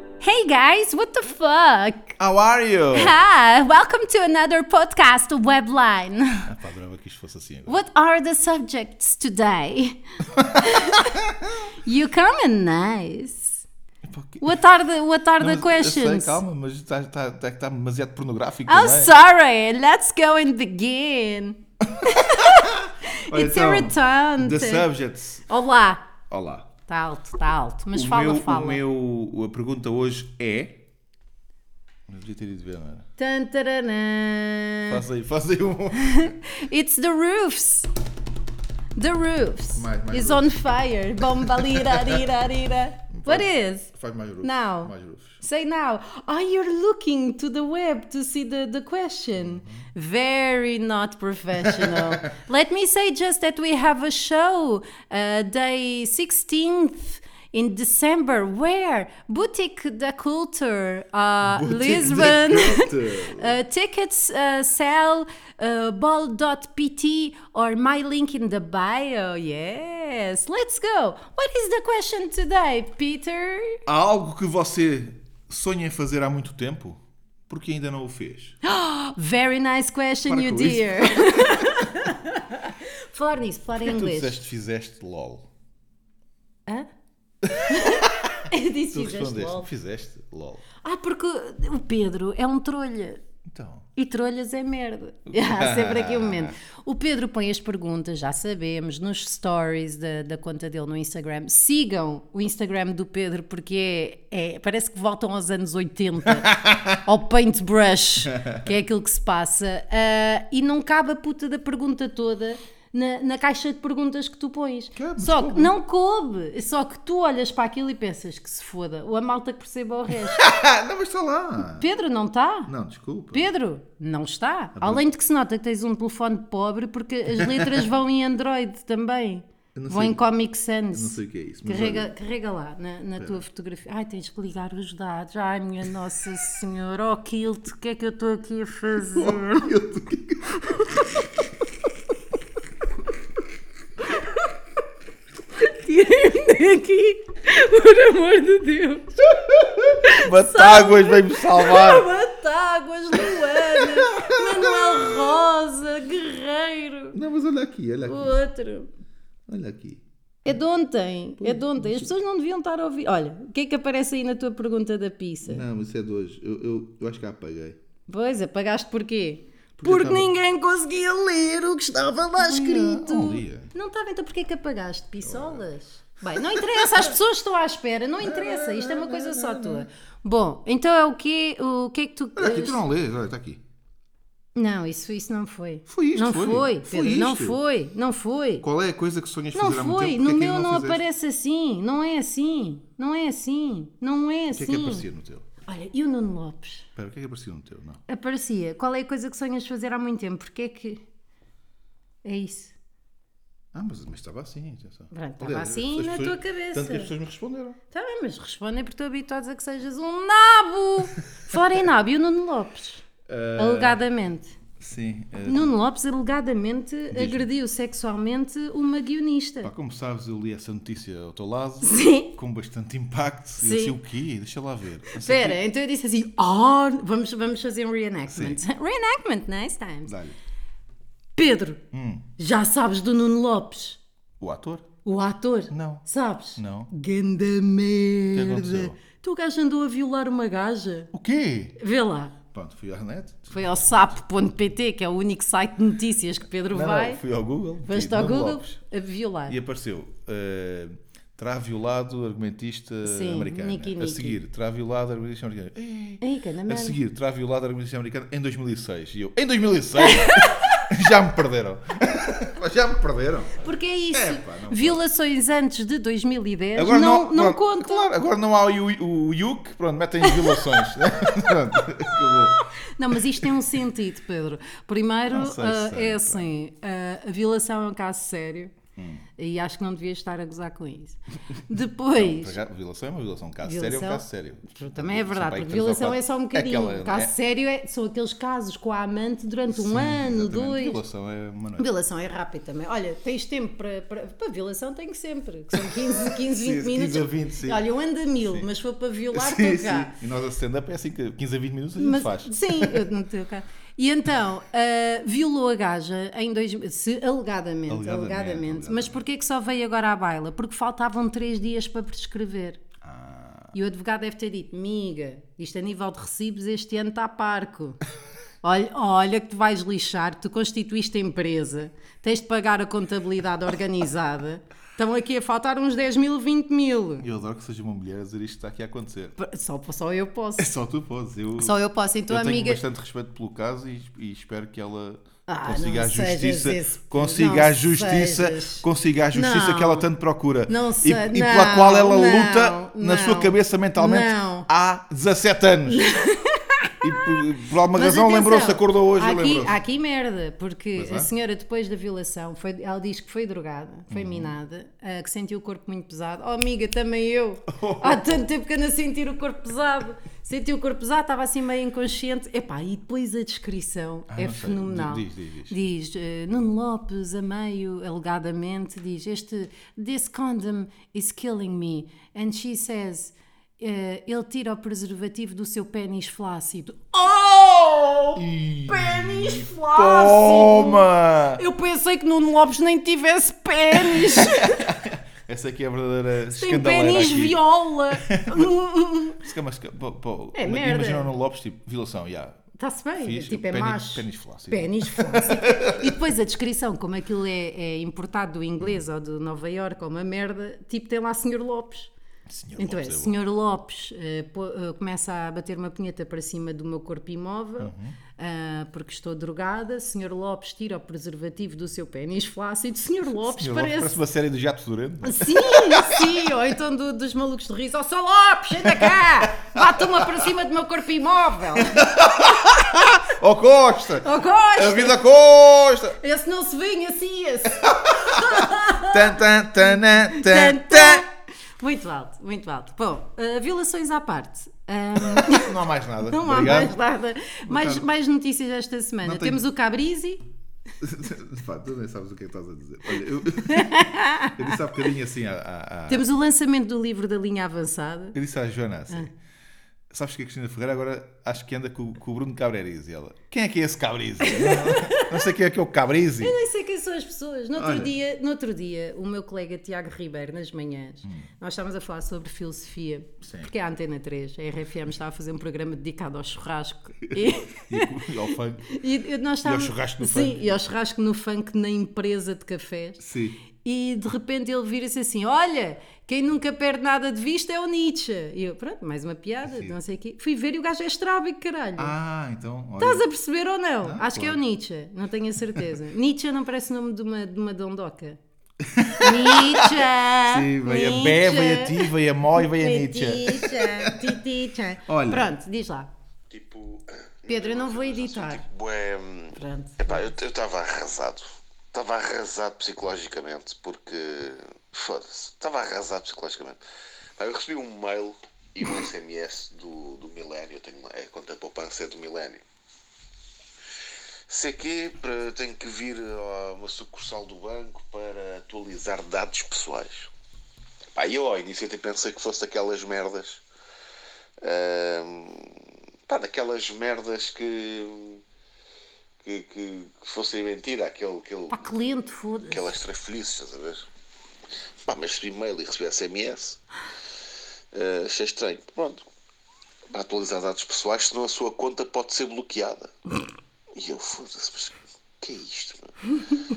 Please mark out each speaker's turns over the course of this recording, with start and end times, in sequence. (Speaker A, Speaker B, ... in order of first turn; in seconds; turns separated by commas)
Speaker A: 0.2-2.2, Speaker B: 2.2-3.1, Speaker A: 2.9-6.5, Speaker B: 6.5-7.8, Speaker A: 7.7-10.0, Speaker B: 10.3-11.5, Speaker A: 10.6-11.2, Speaker A: 11.8-13.6, Speaker B: 14.0-14.6, Speaker A: 14.4-16.4, Speaker B: 15.4-19.1, Speaker A: 18.7-24.9, Speaker B: 21.9-25.5, Speaker A: 25.5-26.1, Speaker B: 26.3-26.7, Speaker A: 26.9-28.8, Speaker B: 27.9-30.8, Speaker B: 32.1-33.0, Speaker A: 33.2-35.0, Speaker B: 34.9-36.3, Speaker A: 36.0-37.9, Speaker A: 39.0-43.9, Speaker B: 39.8-40.8, Speaker B: 41.5-42.2, Speaker B: 43.1-45.4, Speaker A: 44.4-73.8, Speaker B: 49.4-49.9, Speaker B: 51.6-52.2, Speaker B: 61.4-63.6, Speaker B: 73.9-78.6, Speaker A: 78.6-84.4, Speaker B: 80.3-81.9, Speaker B: 83.8-85.5, Speaker B: 87.5-88.3, Speaker A: 87.6-89.7, Speaker B: 88.9-90.7, Speaker A: 90.8-93.2, Speaker B: 93.5-93.9, Speaker A: 94.0-120.5, Speaker B: 95.3-96.5, Speaker B: 106.3-107.0, Speaker B: 108.3-108.7, Speaker B: 115.0-115.7, Speaker B: 120.2-121.9, Speaker A: 121.8-122.7, Speaker B: 122.7-123.5, Speaker A: 123.3-139.7, Speaker B: 124.8-125.0, Speaker B: 127.4-127.8, Speaker B: 129.8-130.2, Speaker B: 130.9-132.1, Speaker B: 133.2-133.4, Speaker B: 139.2-141.2, Speaker A: 140.7-141.2, Speaker A: 144.2-144.4, Speaker A: 145.6-157.2, Speaker B: 149.4-152.1, Speaker B: 153.2-155.4, Speaker B: 157.1-158.4, Speaker A: 158.0-158.9, Speaker B: 159.5-160.6, Speaker A: 160.4-165.7, Speaker B: 161.4-162.1, Speaker B: 165.5-167.8, Speaker A: 168.1-182.8, Speaker B: 169.8-170.3, Speaker B: 172.4-173.7, Speaker B: 175.2-175.7, Speaker B: 176.3-177.1, Speaker B: 178.2-179.9, Speaker B: 182.4-183.6, Speaker A: 184.6-188.7, Speaker B: 185.9-187.6, Speaker B: 188.6-191.0, Speaker A: 189.5-195.1, Speaker B: 194.5-195.4, Speaker A: 195.7-196.9, Speaker B: 197.0-198.0, Speaker A: 198.1-201.0, Speaker A: 202.2-202.7, Speaker B: 203.7-207.8, Speaker A: 205.1-207.1, Speaker A: 207.9-213.0, Speaker B: 213.3-214.0, Speaker A: 213.6-214.5, Speaker B: 214.8-215.7, Speaker A: 215.5-219.7, Speaker B: 217.1-217.5, Speaker B: 219.6-225.6, Speaker A: 221.8-222.3, Speaker A: 223.6-224.0, Speaker A: 225.2-230.1, Speaker B: 228.3-228.6, Speaker B: 230.1-230.4, Speaker A: 231.4-231.8, Speaker B: 231.9-232.3, Speaker A: 232.4-234.0, Speaker B: 234.4-234.9, Speaker A: 235.1-241.1, Speaker B: 235.7-236.1, Speaker B: 236.6-236.9, Speaker B: 238.3-239.0, Speaker B: 241.1-241.8, Speaker A: 241.8-242.4, Speaker B: 242.5-244.1, Speaker A: 243.5-247.2, Speaker B: 246.7-248.8, Speaker A: 247.8-249.6, Speaker B: 249.5-263.6, Speaker A: 253.0-254.4, Speaker A: 256.2-257.0, Speaker A: 260.0-260.8, Speaker A: 263.6-268.1, Speaker B: 264.1-265.0, Speaker B: 266.8-272.6, Speaker A: 270.2-270.8, Speaker A: 272.1-278.8, Speaker B: 275.3-276.5, Speaker B: 279.0-279.2, Speaker A: 279.4-282.6, Speaker B: 282.1-287.3, Speaker A: 283.6-291.0, Speaker B: 289.7-291.9, Speaker A: 291.8-300.1, Speaker B: 295.7-297.8, Speaker B: 298.4-298.7, Speaker B: 299.3-303.1, Speaker A: 302.0-312.8, Speaker B: 307.9-309.2, Speaker B: 313.0-313.7, Speaker A: 313.7-318.0, Speaker A: 318.6-327.2, Speaker B: 327.2-329.4, Speaker A: 329.4-330.7, Speaker B: 330.6-331.8, Speaker A: 331.6-332.8, Speaker B: 332.3-346.1, Speaker A: 335.5-340.1, Speaker A: 340.7-344.7, Speaker A: 345.9-347.2, Speaker B: 347.0-349.8, Speaker A: 347.9-384.9, Speaker B: 351.0-351.3, Speaker B: 354.1-354.5, Speaker B: 357.7-358.4, Speaker B: 364.3-365.7, Speaker B: 378.4-381.6, Speaker B: 384.0-387.6, Speaker A: 386.5-389.4, Speaker B: 388.2-388.7, Speaker B: 389.4-392.6, Speaker A: 390.5-391.3, Speaker A: 392.8-402.1, Speaker B: 393.2-396.1, Speaker B: 402.5-403.4, Speaker A: 402.8-414.2, Speaker B: 407.8-408.2, Speaker B: 413.4-416.5, Speaker A: 415.2-422.2, Speaker B: 418.9-420.5, Speaker B: 421.8-426.2, Speaker A: 424.2-425.2, Speaker A: 426.2-429.4, Speaker B: 427.9-431.2, Speaker A: 430.3-440.4, Speaker B: 435.2-437.0, Speaker B: 437.7-438.1, Speaker B: 439.2-439.6, Speaker B: 441.0-446.2, Speaker A: 443.7-444.7, Speaker A: 446.1-448.4, Speaker B: 448.3-449.3, Speaker B: 450.1-456.6, Speaker A: 454.4-455.4, Speaker A: 456.4-468.2, Speaker B: 457.8-458.1, Speaker B: 463.4-463.7, Speaker B: 467.4-468.9, Speaker A: 468.9-473.2, Speaker B: 469.6-470.8, Speaker B: 473.2-473.6, Speaker A: 473.8-482.1, Speaker B: 479.7-479.9, Speaker B: 482.0-483.2, Speaker A: 483.0-488.4, Speaker B: 484.0-484.6, Speaker B: 488.8-494.3, Speaker A: 489.2-496.1, Speaker B: 495.1-495.5, Speaker C: 496.5-506.8, Speaker A: 497.5-498.6, Speaker A: 499.5-500.3, Speaker C: 507.4-512.6, Speaker C: 514.5-520.3, Speaker C: 521.1-523.6, Speaker C: 524.6-528.4, Speaker C: 529.4-531.8, Speaker A: 531.7-532.9, Speaker C: 532.7-534.1, Speaker C: 535.0-536.8, Speaker C: 537.9-539.3, Speaker C: 540.1-543.1, Speaker C: 544.0-546.1